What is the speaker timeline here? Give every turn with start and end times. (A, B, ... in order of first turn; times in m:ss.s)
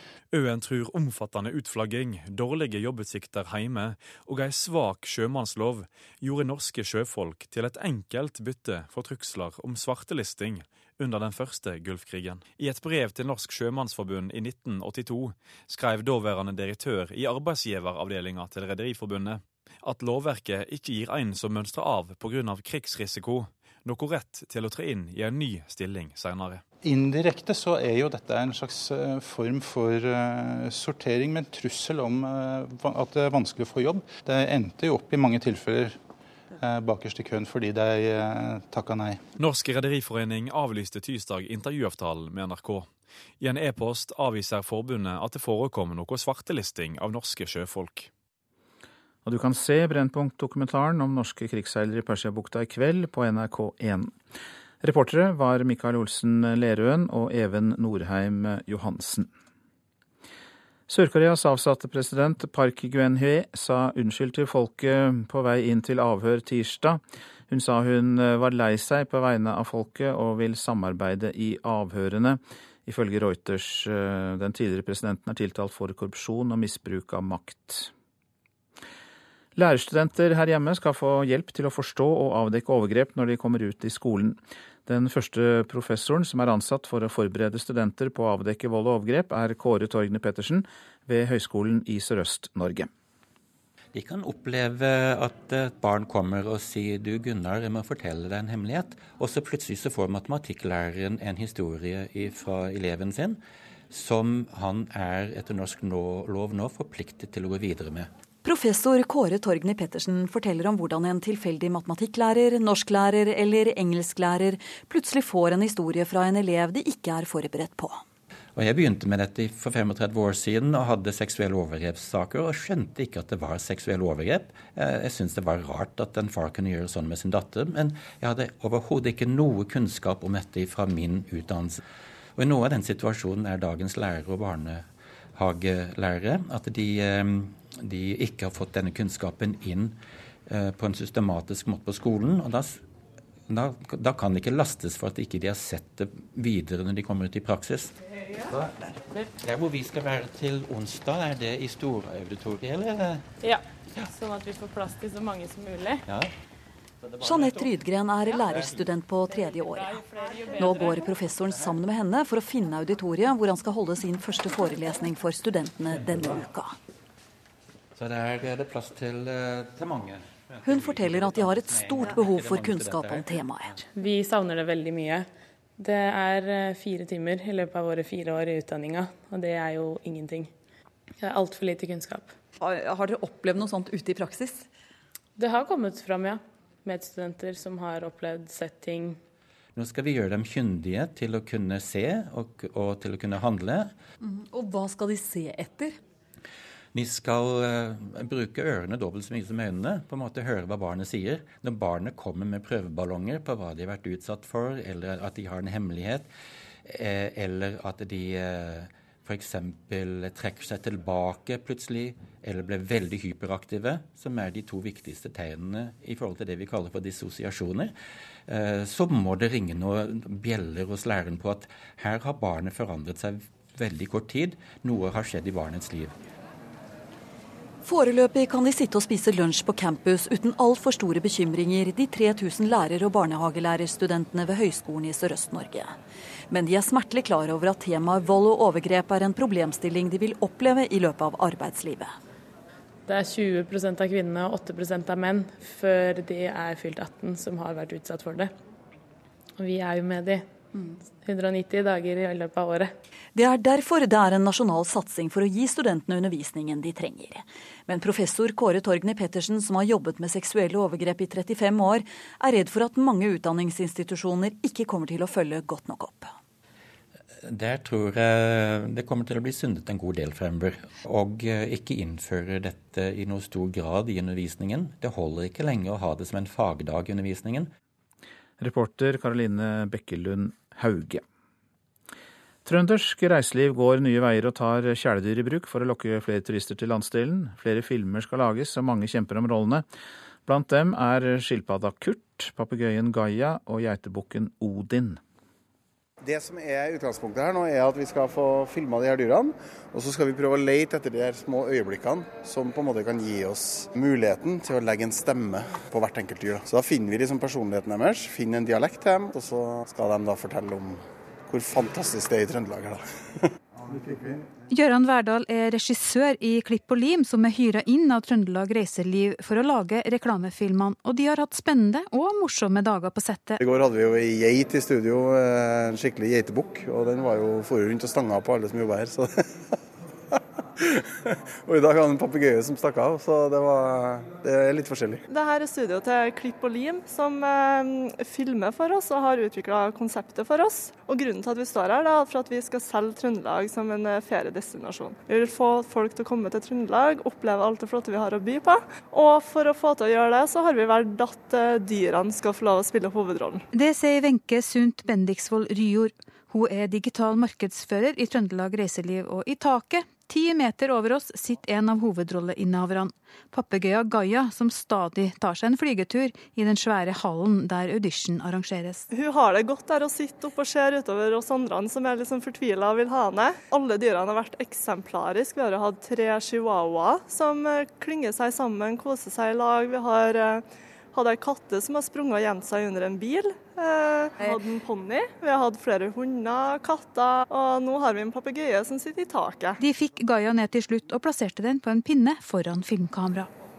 0:00.3-0:26.6 A
0:26.8-0:36.0 B
0:36.6-0:39.2 B
0:39.4-0:42.9 A
0:43.4-0:48.1 A
0:49.2-0:54.1 C
0:54.8-0:59.3 C
1:00.9-1:17.9 C
1:19.6-1:32.9 C
1:33.9-1:48.1 D
1:48.4-1:58.0 E
1:58.6-2:11.8 D
2:12.4-2:22.8 D
2:23.5-2:33.2 D
2:33.4-2:36.0 F
2:37.2-2:46.8 E
2:39.3-2:41.0 F
2:45.9-2:46.4 D
2:48.0-2:53.4 D
2:50.6-2:53.8 E
2:53.9-3:00.5 F
3:01.2-3:02.3 F
3:05.4-3:09.2 F
3:09.7-3:13.9 D
3:16.9-3:26.3 D
3:26.8-3:37.9 D
3:38.5-3:46.1 D
3:47.8-3:56.0 E
3:56.5-4:02.2 E
4:03.1-4:08.5 F
4:09.6-4:12.9 F
4:13.3-4:26.3 E
4:27.4-4:37.7 D
4:38.6-4:41.2 C
4:42.6-4:49.8 C
4:50.4-4:55.2 C
4:56.2-5:13.0 G
5:14.7-5:23.5 H
5:23.6-5:29.4 G
5:31.6-5:35.2 G
5:35.3-5:53.6 I
5:53.7-6:09.0 H
6:09.1-6:29.8 I
6:29.8-6:33.4 H